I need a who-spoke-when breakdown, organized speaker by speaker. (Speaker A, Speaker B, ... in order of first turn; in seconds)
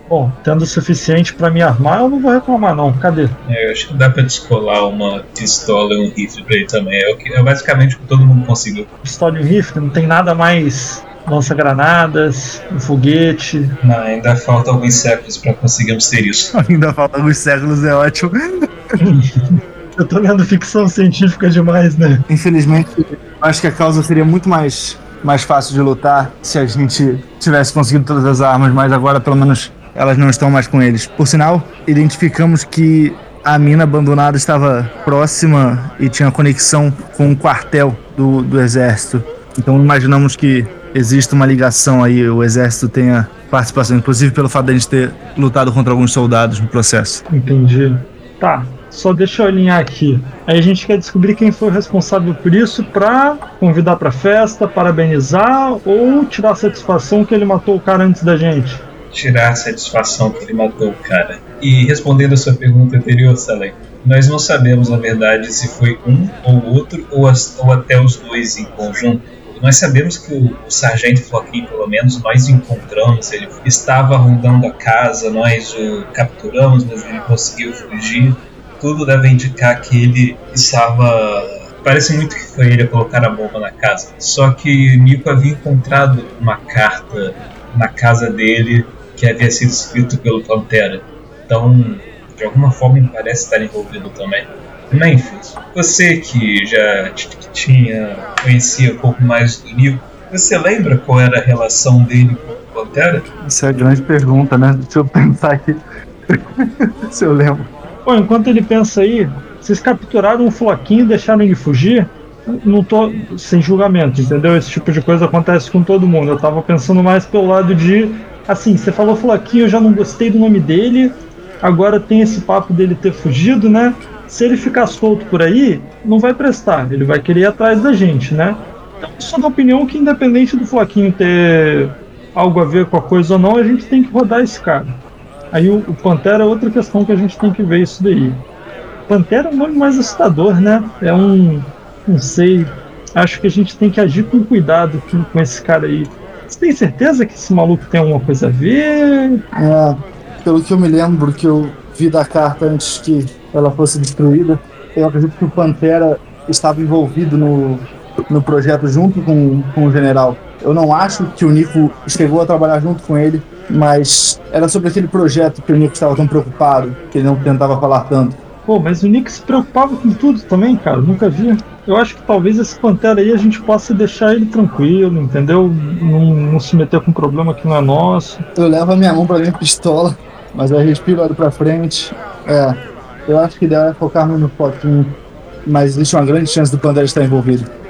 Speaker A: 0.1-3.4, 9.0-13.7, 19.0-22.3, 47.3-58.8, 108.0-135.0, 135.5-138.4, 139.1-149.4, 168.7-178.4
Speaker B: 3.5-8.9, 13.8-16.5, 59.1-103.2
Speaker C: 16.5-19.0, 22.3-47.2, 103.4-107.7, 149.6-168.4, 178.6-187.7